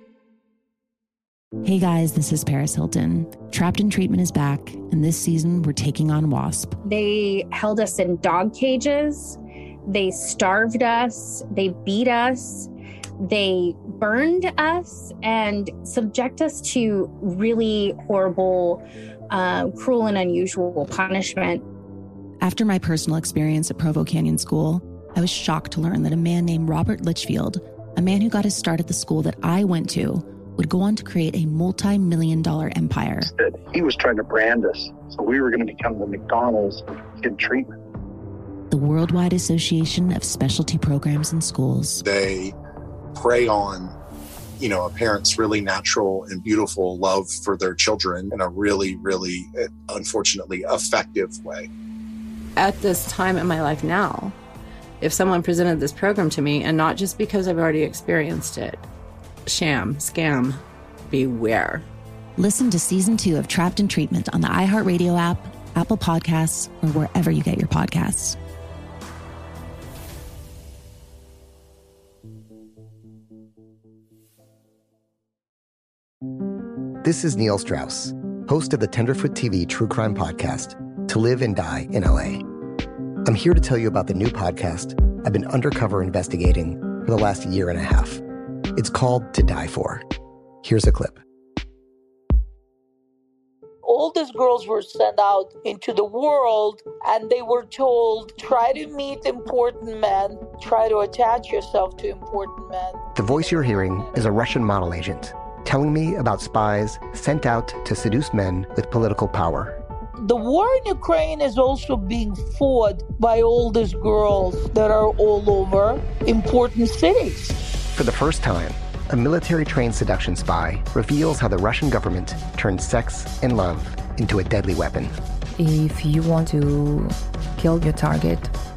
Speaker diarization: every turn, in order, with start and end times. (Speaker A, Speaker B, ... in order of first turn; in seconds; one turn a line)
Speaker A: 1.6-6.8
Speaker B: 6.8-12.7
Speaker B: 13.2-21.6
Speaker A: 22.4-33.3
Speaker C: 33.2-37.7
Speaker A: 38.7-42.0
Speaker D: 42.0-42.5
Speaker D: 43.1-43.9
Speaker D: 44.6-51.7
Speaker E: 52.6-54.4
Speaker E: 55.0-58.9
Speaker E: 59.5-61.9
Speaker A: 62.4-68.4
Speaker F: 77.0-82.4
Speaker F: 83.2-88.2
Speaker F: 88.8-90.0
Speaker F: 90.6-91.2
Speaker G: 93.8-103.0
Speaker F: 103.2-109.8
Speaker G: 110.2-117.6
Speaker F: 118.0-125.1
Speaker H: 125.6-128.5